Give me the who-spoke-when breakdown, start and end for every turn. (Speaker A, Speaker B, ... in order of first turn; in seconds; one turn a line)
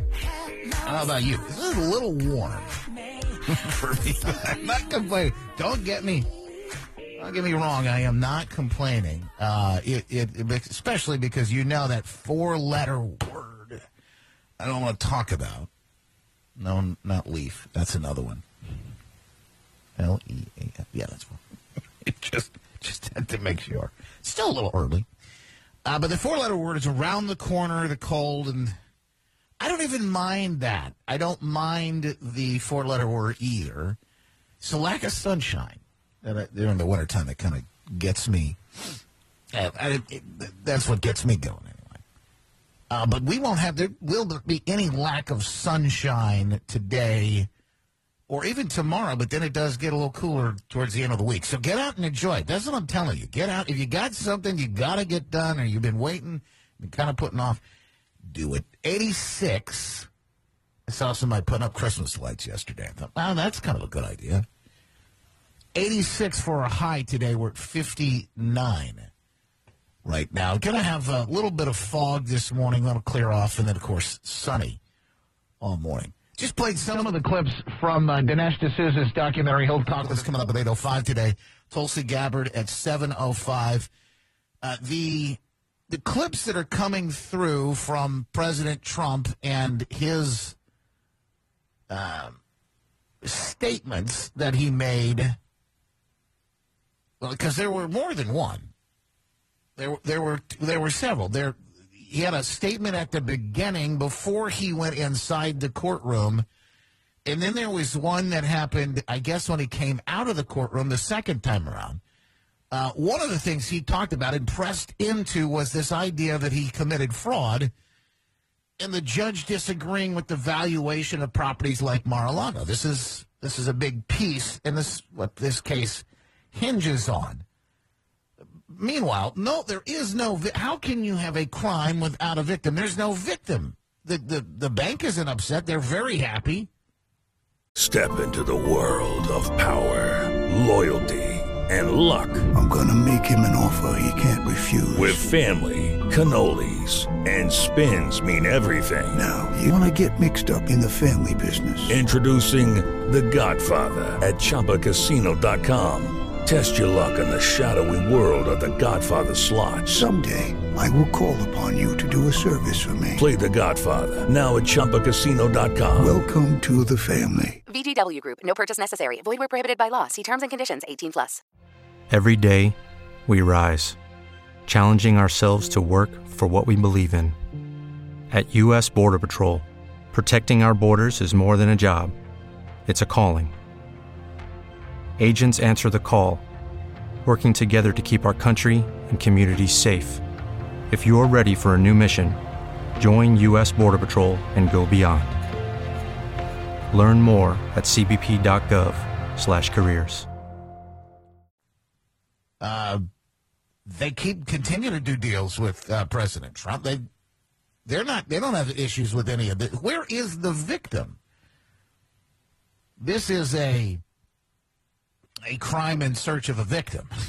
Speaker A: 0.8-2.7
Speaker A: 3.4-6.3
Speaker A: 7.2-13.8
Speaker A: 14.6-15.7
Speaker A: 16.6-18.4
Speaker A: 20.0-21.4
Speaker A: 22.0-25.1
Speaker A: 25.8-28.7
Speaker A: 29.6-34.0
Speaker A: 34.6-38.6
Speaker A: 39.5-42.0
Speaker A: 42.9-47.5
Speaker A: 48.3-57.6
Speaker A: 58.2-60.1
Speaker A: 60.9-64.4
Speaker A: 65.7-69.1
Speaker A: 70.0-74.8
Speaker A: 75.6-83.9
Speaker A: 84.6-90.6
Speaker A: 91.9-92.4
Speaker A: 93.2-95.3
Speaker A: 97.2-98.7
Speaker A: 99.8-106.4
Speaker A: 107.2-112.0
Speaker A: 112.7-117.7
Speaker A: 118.8-127.4
Speaker A: 128.7-136.7
Speaker B: 137.7-142.5
Speaker C: 142.5-145.3
Speaker B: 144.9-149.2
Speaker C: 149.1-152.0
Speaker B: 151.9-160.1
Speaker C: 159.9-163.3
Speaker B: 163.2-166.2
Speaker C: 165.9-167.6
Speaker D: 167.7-171.4
Speaker E: 172.1-174.0
Speaker E: 174.7-177.4
Speaker E: 178.3-182.1
Speaker E: 182.8-183.5
Speaker E: 185.2-186.4
Speaker E: 187.2-190.2
Speaker E: 190.9-192.4
Speaker E: 193.0-195.4
Speaker E: 196.9-200.3
Speaker A: 202.6-203.1
Speaker A: 203.8-207.0
Speaker A: 207.8-211.2
Speaker A: 213.0-214.0
Speaker A: 215.4-217.1